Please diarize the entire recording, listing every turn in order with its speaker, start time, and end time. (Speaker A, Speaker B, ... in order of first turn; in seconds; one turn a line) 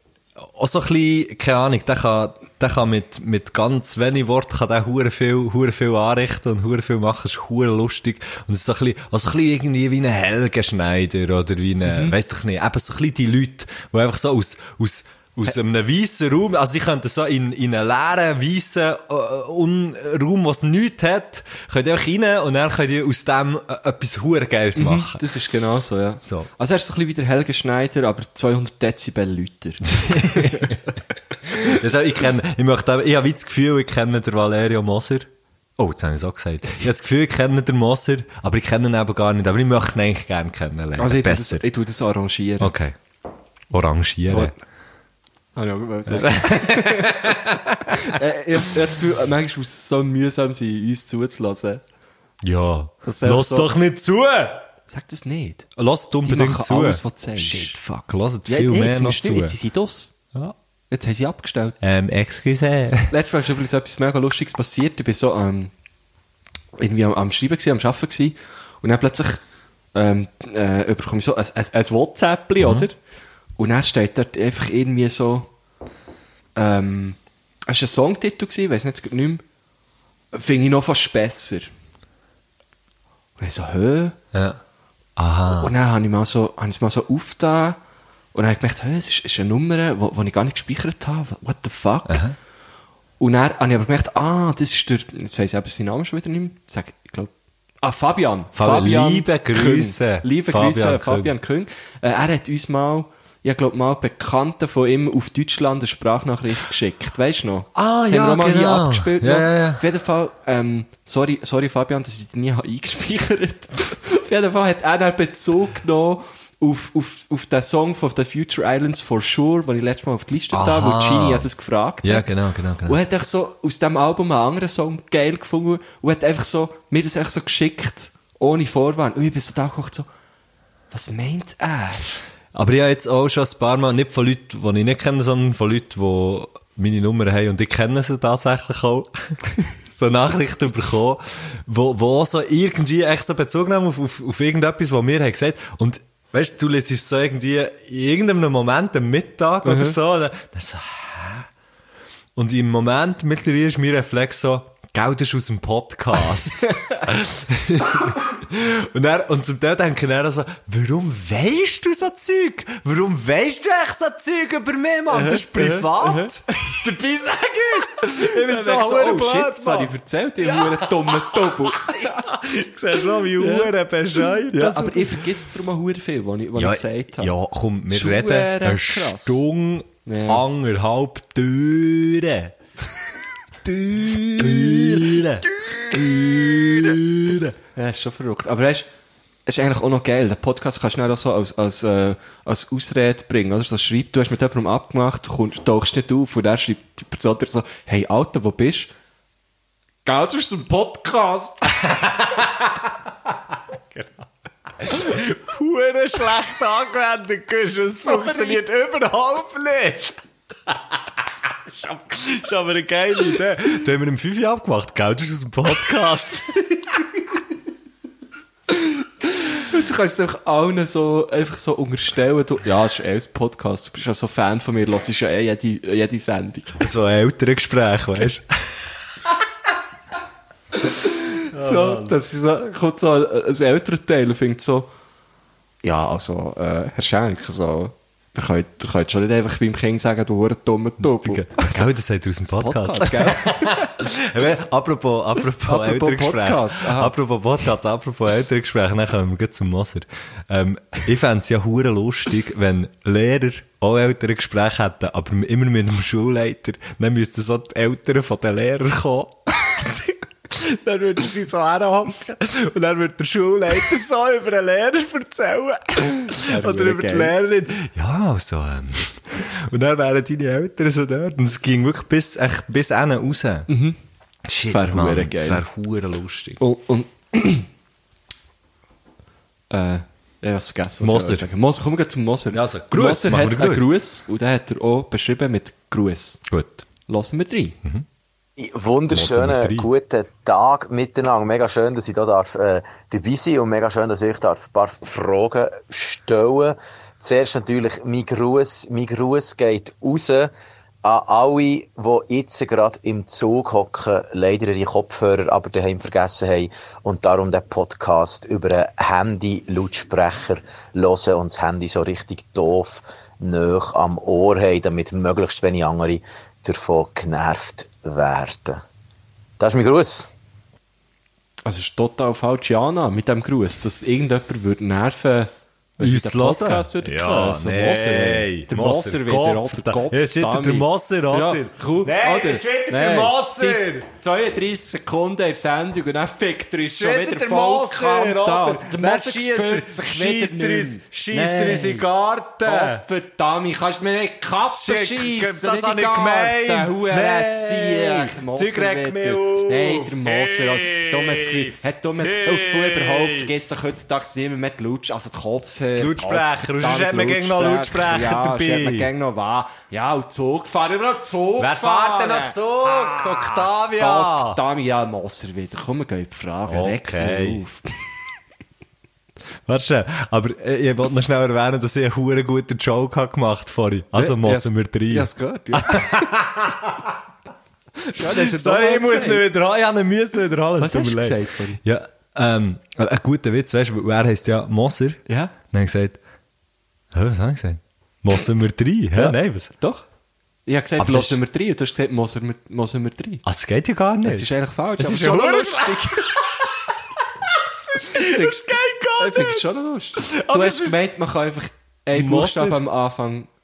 Speaker A: 0.4-25.2
Speaker B: 11.9-12.1
Speaker B: 24.7-30.8
Speaker A: 30.0-30.9
Speaker A: 31.4-41.6
Speaker B: 41.0-42.7
Speaker A: 42.6-43.0
Speaker A: 43.7-44.5
Speaker B: 45.5-51.8
Speaker A: 46.1-48.1
Speaker A: 52.4-54.6
Speaker B: 53.0-53.7
Speaker B: 54.9-55.7
Speaker A: 55.8-59.5
Speaker B: 56.2-57.8
Speaker B: 58.5-60.1
Speaker B: 60.9-61.8
Speaker A: 61.8-63.1
Speaker B: 63.1-65.7
Speaker B: 66.8-69.4
Speaker B: 69.9-73.0
Speaker A: 72.6-72.9
Speaker B: 73.6-75.5
Speaker B: 76.5-79.4
Speaker B: 80.3-81.7
Speaker B: 83.4-84.2
Speaker A: 84.3-84.6
Speaker A: 85.2-85.7
Speaker B: 85.5-87.8
Speaker B: 88.3-92.2
Speaker A: 92.1-92.4
Speaker B: 93.2-130.1
Speaker A: 98.5-101.3
Speaker A: 107.7-109.8
Speaker A: 120.5-121.5
Speaker A: 122.0-123.0
Speaker B: 130.9-132.1
Speaker A: 132.5-139.4
Speaker A: 139.9-151.5
Speaker B: 149.6-149.9
Speaker A: 152.4-175.3
Speaker B: 156.7-157.0
Speaker B: 165.1-166.4
Speaker B: 168.1-172.2
Speaker B: 173.3-173.7
Speaker B: 174.4-177.3
Speaker A: 176.6-182.5
Speaker B: 177.9-179.4
Speaker B: 180.1-180.5
Speaker A: 183.6-187.6
Speaker B: 184.4-186.6
Speaker B: 187.7-188.9
Speaker B: 189.4-198.9
Speaker B: 200.1-201.9
Speaker A: 201.9-202.7
Speaker A: 203.7-204.2
Speaker A: 204.8-210.8
Speaker B: 208.0-208.6
Speaker A: 211.7-217.1
Speaker B: 218.7-226.8
Speaker A: 226.8-228.9
Speaker B: 230.8-234.9
Speaker A: 231.5-232.2
Speaker B: 235.8-241.9
Speaker A: 241.0-273.7
Speaker B: 242.5-243.9
Speaker B: 245.6-247.2
Speaker B: 266.3-267.3
Speaker B: 273.7-274.0
Speaker A: 274.5-276.6
Speaker B: 274.6-275.6
Speaker B: 276.6-277.7
Speaker B: 279.7-286.4
Speaker A: 281.0-281.5
Speaker A: 282.5-283.9
Speaker A: 286.5-286.9
Speaker B: 287.1-287.8
Speaker C: 288.6-300.5
Speaker A: 289.1-289.9
Speaker C: 301.0-318.8
Speaker C: 319.6-320.3
Speaker B: 321.6-342.1
Speaker A: 326.0-334.1
Speaker A: 336.8-343.1
Speaker B: 342.6-367.9
Speaker A: 344.7-351.7
Speaker A: 352.2-353.5
Speaker A: 355.9-359.1
Speaker A: 361.6-364.6
Speaker A: 366.6-367.6
Speaker A: 369.6-377.1
Speaker B: 374.1-376.3
Speaker B: 378.0-379.5
Speaker A: 378.2-386.2
Speaker B: 380.8-381.8
Speaker B: 385.3-385.5
Speaker A: 387.1-389.7
Speaker B: 389.1-390.1
Speaker B: 390.6-393.4
Speaker A: 391.0-391.4
Speaker A: 393.4-396.6
Speaker B: 394.2-396.4
Speaker A: 397.5-399.6
Speaker B: 398.1-398.6
Speaker B: 399.2-403.5
Speaker A: 400.2-401.0
Speaker A: 402.1-402.8